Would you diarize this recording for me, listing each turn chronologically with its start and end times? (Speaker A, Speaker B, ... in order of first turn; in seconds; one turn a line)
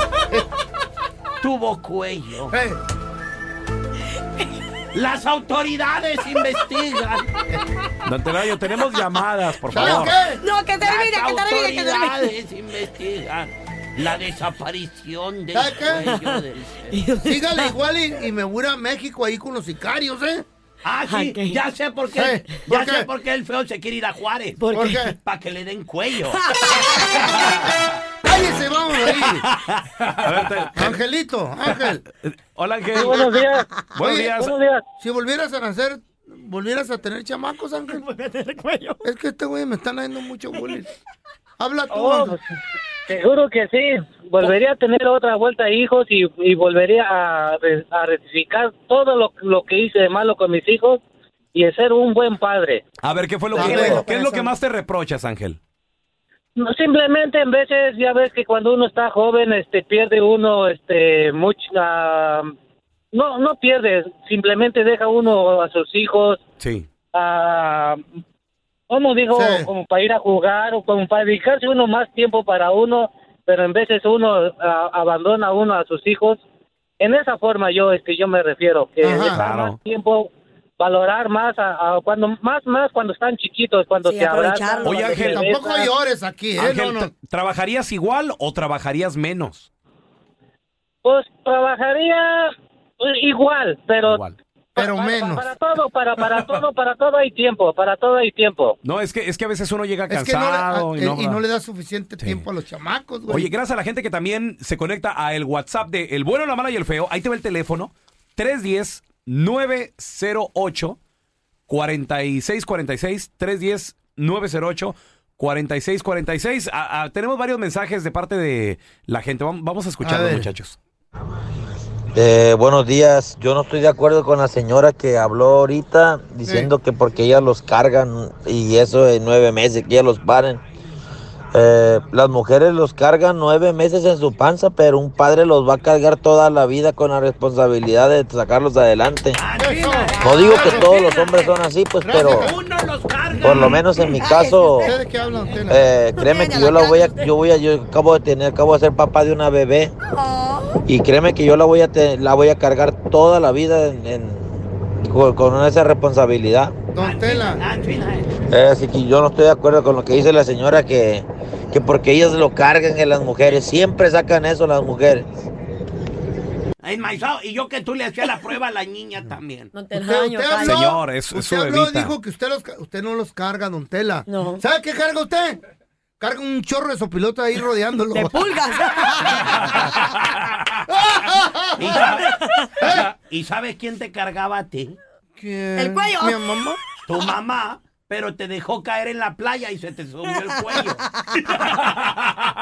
Speaker A: 1.4-2.5
Speaker B: 2.4-2.8
Speaker A: 4.9-7.3
Speaker C: 8.0-10.2
Speaker B: 9.7-10.4
Speaker D: 9.7-12.4
Speaker A: 10.8-17.0
Speaker B: 15.5-16.2
Speaker D: 16.0-17.8
Speaker B: 17.2-20.5
Speaker A: 20.8-26.4
Speaker D: 21.1-21.6
Speaker B: 22.1-23.1
Speaker D: 22.3-22.7
Speaker D: 24.6-25.1
Speaker B: 24.7-25.2
Speaker D: 26.3-27.4
Speaker B: 28.2-29.5
Speaker A: 29.2-29.8
Speaker C: 30.2-31.0
Speaker B: 30.7-32.0
Speaker C: 31.7-33.2
Speaker E: 33.0-33.8
Speaker B: 33.0-34.4
Speaker C: 34.0-34.6
Speaker E: 34.4-34.8
Speaker B: 35.0-38.1
Speaker D: 38.2-39.0
Speaker B: 39.0-40.9
Speaker B: 41.6-42.4
Speaker E: 41.9-42.4
Speaker E: 43.1-51.0
Speaker E: 51.5-52.8
Speaker C: 53.0-55.6
Speaker B: 53.5-54.0
Speaker D: 53.6-54.5
Speaker E: 56.6-62.5
Speaker E: 63.1-66.4
Speaker C: 66.6-66.9
Speaker E: 67.1-68.0
Speaker E: 68.9-76.4
Speaker B: 69.3-69.7
Speaker E: 77.0-85.9
Speaker B: 79.0-79.4
Speaker C: 79.2-79.8
Speaker D: 84.0-85.3
Speaker C: 84.8-85.5
Speaker B: 85.2-87.1
Speaker C: 86.6-89.7
Speaker E: 91.0-94.2
Speaker C: 94.0-94.4
Speaker E: 94.8-98.8
Speaker B: 94.8-95.5
Speaker C: 98.8-101.4
Speaker B: 100.1-103.5
Speaker C: 102.2-102.5
Speaker C: 103.3-111.0
Speaker C: 111.7-120.8
Speaker B: 120.0-120.5
Speaker F: 122.1-130.6
Speaker B: 126.4-126.7
Speaker F: 131.5-139.4
Speaker A: 139.3-141.3
Speaker B: 139.5-141.1
Speaker F: 140.2-142.5
Speaker B: 142.0-142.6
Speaker A: 142.4-143.5
Speaker B: 143.3-143.9
Speaker F: 143.4-144.9
Speaker D: 144.2-145.5
Speaker B: 144.8-145.9
Speaker F: 145.7-149.9
Speaker D: 146.1-147.4
Speaker D: 150.1-150.8
Speaker F: 150.9-156.9
Speaker B: 156.9-157.7
Speaker A: 157.0-158.3
Speaker F: 158.5-165.3
Speaker A: 166.8-169.7
Speaker D: 169.7-170.9
Speaker B: 169.9-175.6
Speaker C: 170.6-172.2
Speaker D: 174.3-174.6
Speaker B: 176.2-178.4
Speaker D: 178.1-179.9
Speaker B: 180.9-182.2
Speaker A: 181.8-182.3
Speaker D: 182.2-182.7
Speaker B: 182.8-183.1
Speaker A: 182.9-185.0
Speaker B: 185.4-186.8
Speaker D: 185.8-186.7
Speaker A: 187.1-191.0
Speaker D: 190.4-191.1